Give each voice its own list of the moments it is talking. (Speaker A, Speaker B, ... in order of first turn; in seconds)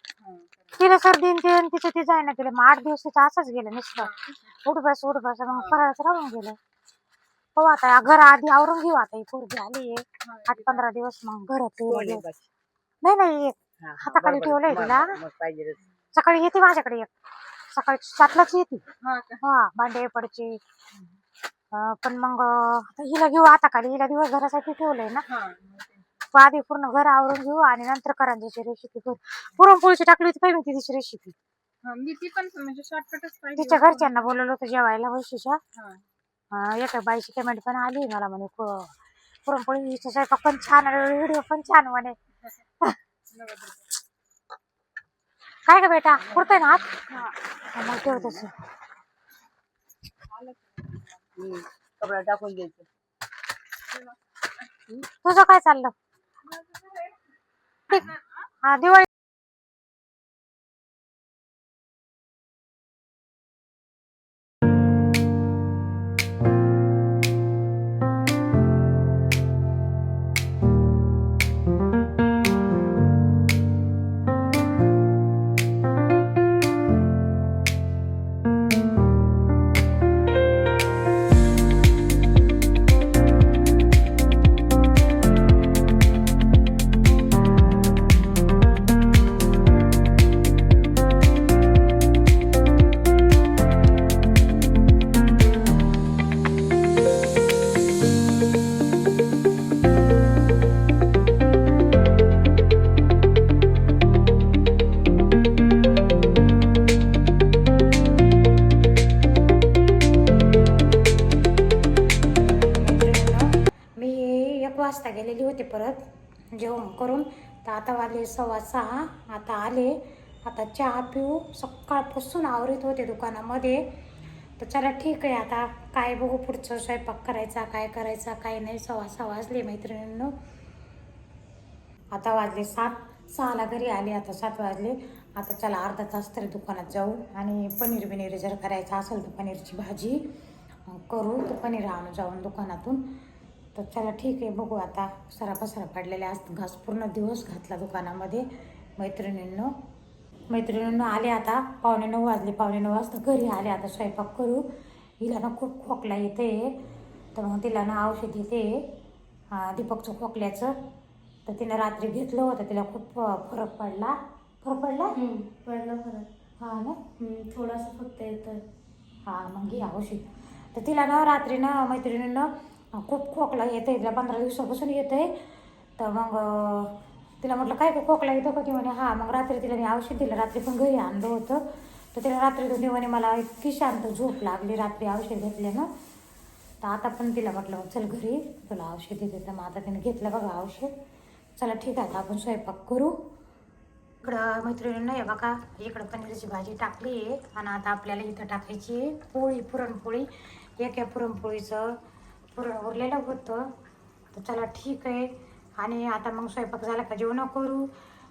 Speaker A: 0.2-0.8, 4.0-4.4, 5.5-5.9, 10.2-10.9, 19.0-19.4, 25.3-26.0, 31.8-34.1, 35.8-36.0, 43.3-43.9, 50.3-51.2, 56.5-57.2, 57.9-58.2
Speaker B: 0.8-4.1, 4.6-6.6, 7.6-12.2, 13.0-15.2, 16.1-17.1, 17.7-18.8, 19.4-20.6, 21.7-25.3, 26.3-31.4, 33.6-35.6, 36.5-38.9, 39.5-42.2, 45.7-48.5, 55.2-55.9, 57.9-59.1, 112.7-123.9, 124.6-130.3, 132.1-140.2, 140.9-143.0, 143.8-149.8, 150.5-154.7, 155.2-156.8, 157.3-158.9, 159.5-160.8, 161.5-165.2, 166.6-167.1, 169.2-175.4, 176.0-185.9, 186.8-190.9, 191.6-193.2, 194.2-202.0, 202.5-203.7, 204.3-207.9
Speaker C: 11.9-12.5, 13.8-15.8, 48.1-48.5, 51.4-52.9
Speaker D: 165.2-166.3, 167.2-168.6